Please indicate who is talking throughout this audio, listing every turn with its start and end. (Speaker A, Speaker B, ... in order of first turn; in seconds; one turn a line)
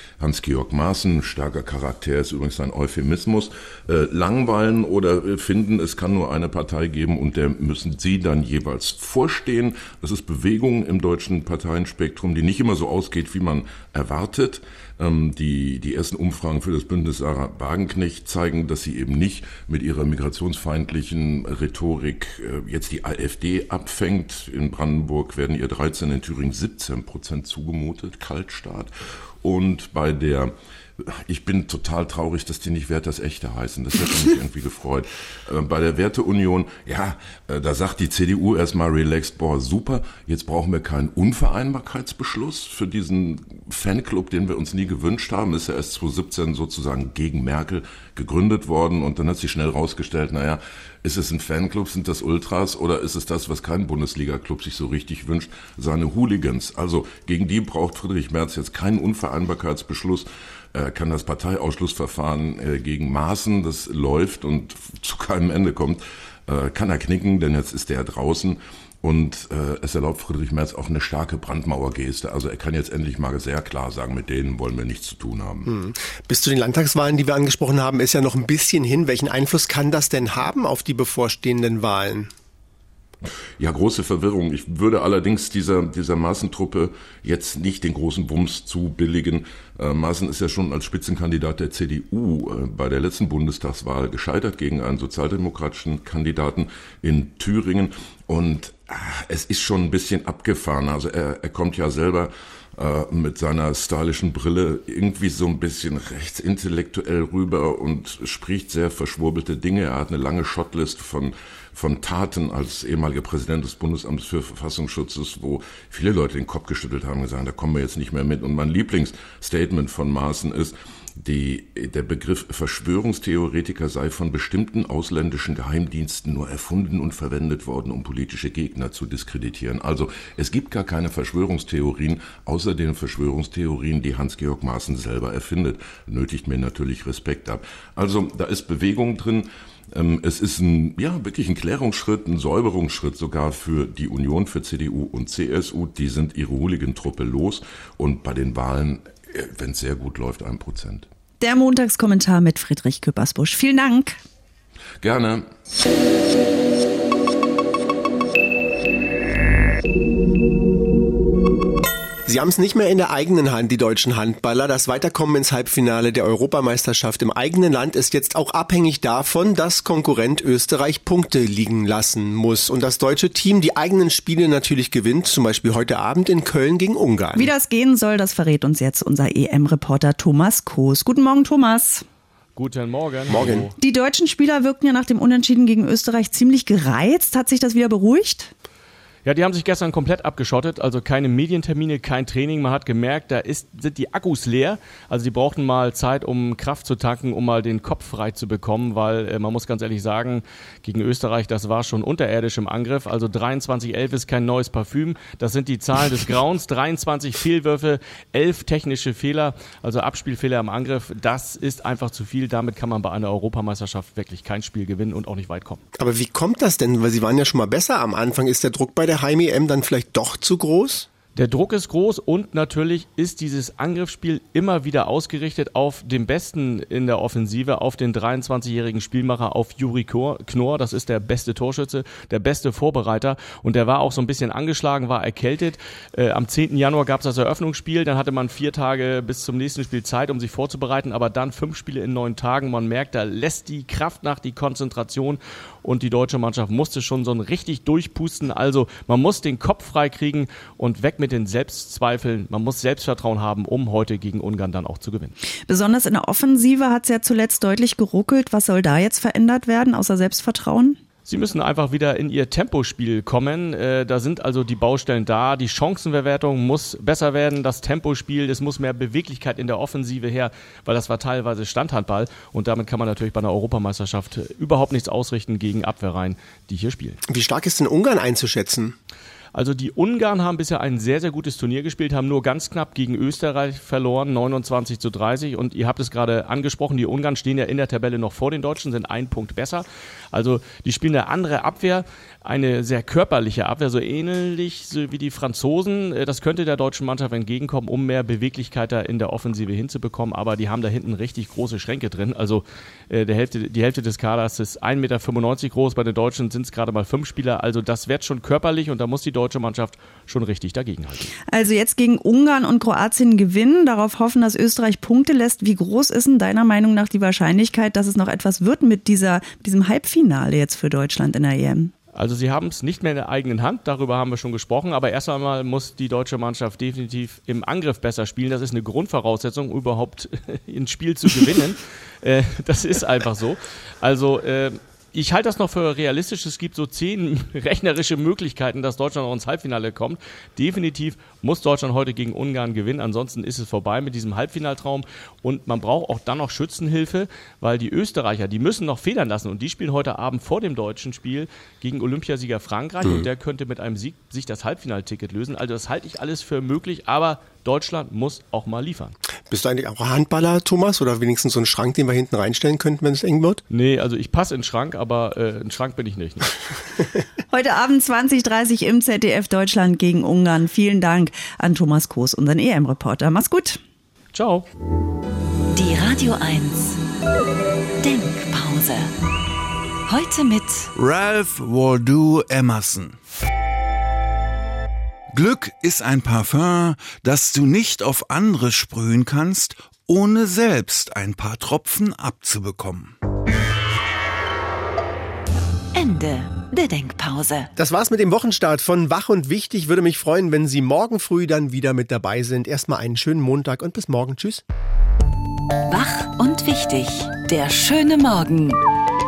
Speaker A: 0.2-28.9
Speaker A: 29.4-75.7
Speaker B: 75.7-82.3
Speaker A: 83.6-151.1
Speaker C: 151.4-154.2
Speaker A: 155.0-155.4
Speaker B: 162.3-177.5
Speaker C: 177.3-182.0
Speaker D: 182.6-183.7
Speaker B: 183.3-183.7
Speaker C: 183.8-188.5
Speaker D: 189.2-215.8
Speaker B: 216.0-221.1
Speaker D: 221.3-255.3
Speaker C: 255.7-261.0
Speaker D: 261.3-277.2
Speaker B: 277.3-278.9
Speaker D: 279.5-311.3
Speaker C: 311.5-321.9
Speaker D: 322.1-359.1
Speaker B: 359.5-363.6
Speaker D: 363.7-366.5
Speaker C: 367.5-373.8
Speaker D: 374.3-374.6
Speaker E: 375.7-377.0
Speaker E: 378.0-379.1
Speaker E: 380.1-380.9
Speaker F: 380.9-383.1
Speaker F: 385.3-393.1
Speaker E: 395.9-397.7
Speaker B: 397.8-404.6
Speaker E: 405.9-408.8